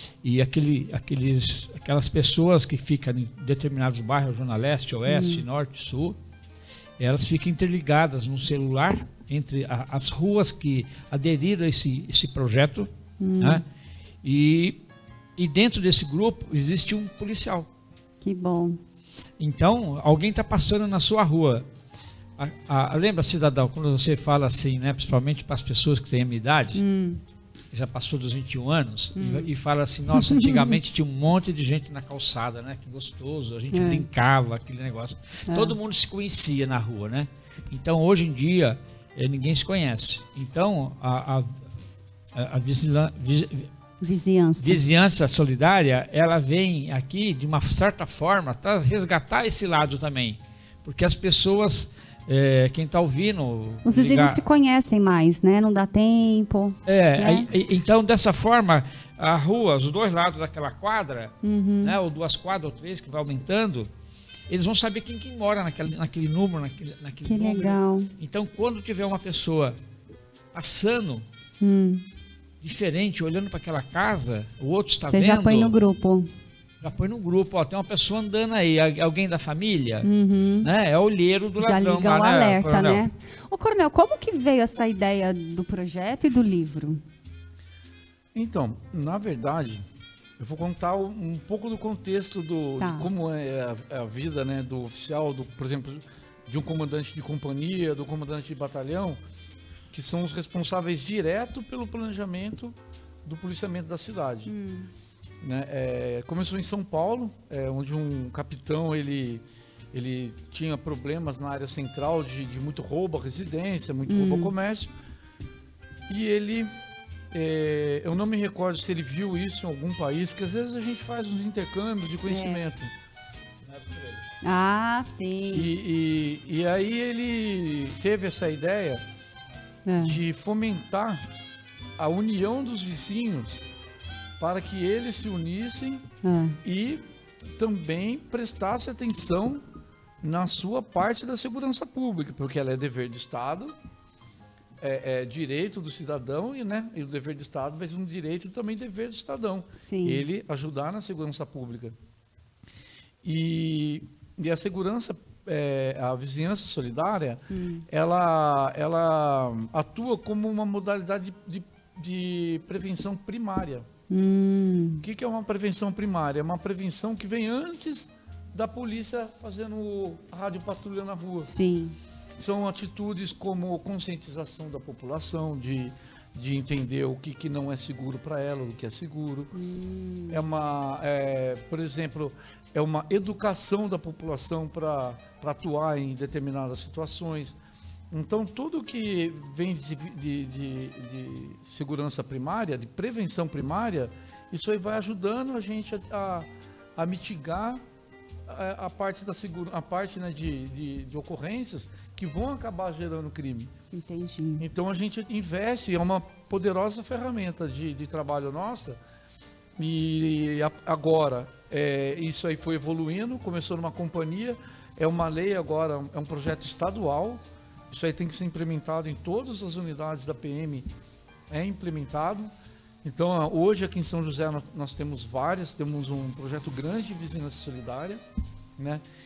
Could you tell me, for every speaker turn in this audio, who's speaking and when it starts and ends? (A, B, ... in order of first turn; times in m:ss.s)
0:00.2-0:06.2 A
0:05.0-0:05.4 B
0:07.0-0:13.6 A
0:13.2-0:13.6 B
0:14.2-0:14.8 A
0:15.4-0:17.7 A
0:18.2-0:18.8 B
0:19.4-0:21.7 A
0:22.4-0:26.8 A
0:26.7-0:27.2 B
0:27.7-0:41.6 A
0:29.1-0:29.5 B
0:30.1-0:30.8 B
0:33.7-0:34.0 B
0:35.5-0:35.8 B
0:42.3-0:43.7 A
0:44.0-0:44.8 B
0:44.6-0:54.4 A
0:53.8-0:57.5 B
0:56.8-1:03.9 A
1:01.4-1:02.0 B
1:04.5-1:09.8 A
1:07.2-1:08.1 B
1:10.5-1:11.2 A
1:11.6-1:12.0 B
1:12.6-1:15.7 A
1:15.1-1:16.3 B
1:16.8-1:20.1 A
1:20.0-1:20.7 B
1:20.6-1:23.0 A
1:21.6-1:27.0 B
1:28.3-1:29.8 C
1:30.4-1:39.2 C
1:32.8-1:33.1 B
1:39.9-1:44.5 C
1:44.5-1:44.9 B
1:45.4-1:54.9 C
1:54.1-1:54.5 B
1:56.1-1:56.7 C
1:57.3-2:02.9 C
2:02.3-2:02.6 B
2:03.6-2:04.2 A
2:04.4-2:05.7 B
2:05.5-2:09.0 C
2:09.8-2:10.2 B
2:10.0-2:11.2 C
2:12.0-2:13.6 C
2:14.4-2:16.1 C
2:16.2-2:16.6 B
2:16.6-2:19.6 C
2:20.2-2:23.7 C
2:24.8-2:32.0 C
2:29.8-2:30.2 B
2:33.2-2:43.9 C
2:37.5-2:37.8 B
2:44.1-2:45.0 B
2:45.0-2:51.5 C
2:51.4-2:52.0 B
2:52.4-2:59.5 C
2:59.5-3:00.4 B
3:00.3-3:07.6 C
3:08.1-3:17.8 C
3:18.5-3:23.7 C
3:23.9-3:24.6 B
3:24.6-3:29.0 C
3:29.8-3:40.9 C
3:41.5-3:42.5 C
3:43.0-3:48.2 C
3:48.8-3:49.0 C